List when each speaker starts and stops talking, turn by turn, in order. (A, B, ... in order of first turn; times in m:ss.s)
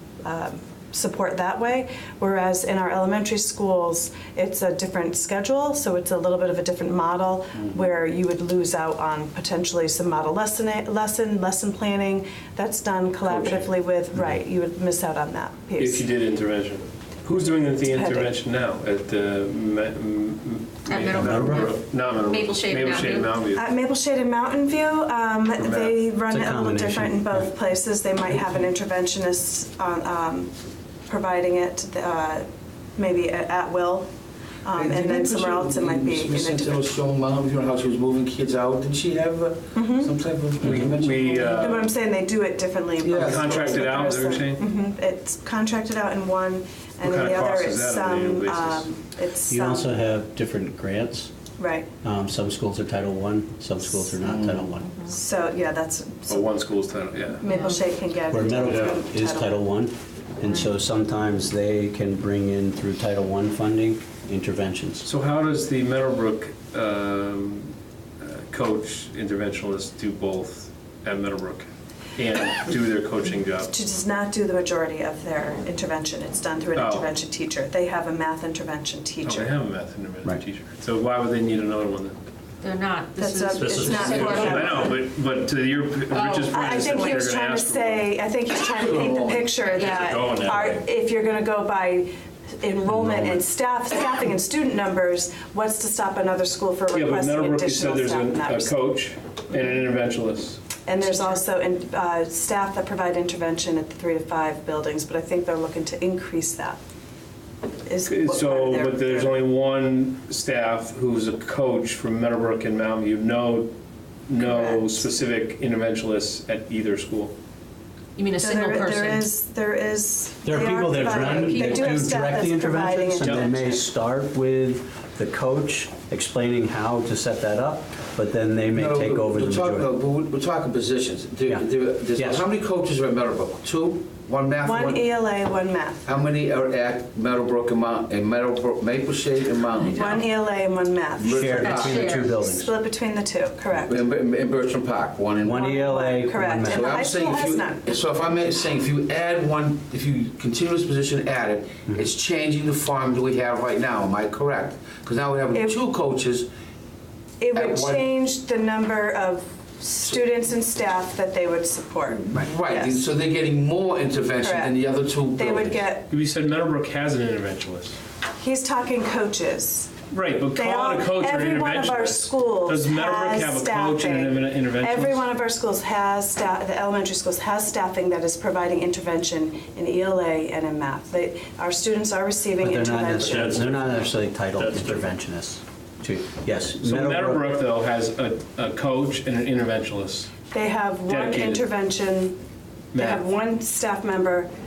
0:00.2-0:16.0 A
0:13.2-0:13.7 B
0:15.8-0:23.6 B
0:17.8-0:18.3 A
0:20.8-0:23.3 C
0:21.0-0:21.7 D
0:23.5-0:30.5 A
0:25.6-0:26.0 B
0:26.3-0:27.5 D
0:31.1-0:32.4 A
0:33.0-0:34.1 A
0:34.6-0:36.8 A
0:34.7-0:41.7 E
0:39.7-0:40.1 A
0:40.6-0:41.9 B
0:41.3-0:50.0 A
0:43.0-0:44.0 E
0:43.1-0:44.6 B
0:47.0-0:48.9 B
0:49.5-0:51.3 D
0:51.6-0:51.9 A
0:52.0-0:54.9 D
0:54.2-0:54.7 E
0:55.1-0:56.5 A
0:56.3-0:57.4 B
0:57.4-0:59.6 A
0:57.4-0:57.8 C
0:58.3-1:05.1 D
1:05.0-1:13.7 B
1:13.7-1:19.5 A
1:16.7-1:17.1 B
1:19.2-1:22.2 B
1:22.6-1:25.0 C
1:23.2-1:24.9 A
1:24.0-1:24.6 D
1:24.4-1:28.1 B
1:26.1-1:27.2 C
1:26.5-1:32.1 A
1:28.8-1:29.7 E
1:29.8-1:30.5 C
1:29.8-1:30.8 B
1:32.6-1:38.7 A
1:32.9-1:33.4 D
1:36.9-1:40.6 B
1:40.8-1:46.8 A
1:47.8-1:49.4 A
1:48.0-1:53.7 B
1:54.3-1:57.3 B
1:54.4-1:55.0 A
1:58.2-1:59.3 C
1:58.4-2:03.8 A
2:00.4-2:09.9 D
2:01.0-2:02.3 C
2:08.7-2:15.0 E
2:11.5-2:12.4 D
2:14.6-2:16.0 A
2:16.0-2:20.3 E
2:19.8-2:24.0 A
2:21.2-2:22.0 E
2:21.2-2:22.7 D
2:21.6-2:22.3 C
2:23.8-2:25.6 E
2:25.4-2:27.1 D
2:25.5-2:27.8 A
2:26.7-2:36.5 E
2:35.5-2:35.8 A
2:37.4-2:43.0 A
2:37.5-2:38.1 E
2:42.3-2:45.8 E
2:44.4-2:44.8 A
2:45.3-2:46.1 A
2:46.1-2:48.0 B
2:48.4-2:49.9 A
2:50.1-2:55.2 B
2:50.5-3:03.7 A
3:02.6-3:07.5 D
3:03.3-3:03.6 B
3:06.8-3:10.3 B
3:10.5-3:12.4 A
3:11.1-3:11.6 B
3:12.9-3:13.2 B
3:12.9-3:14.5 A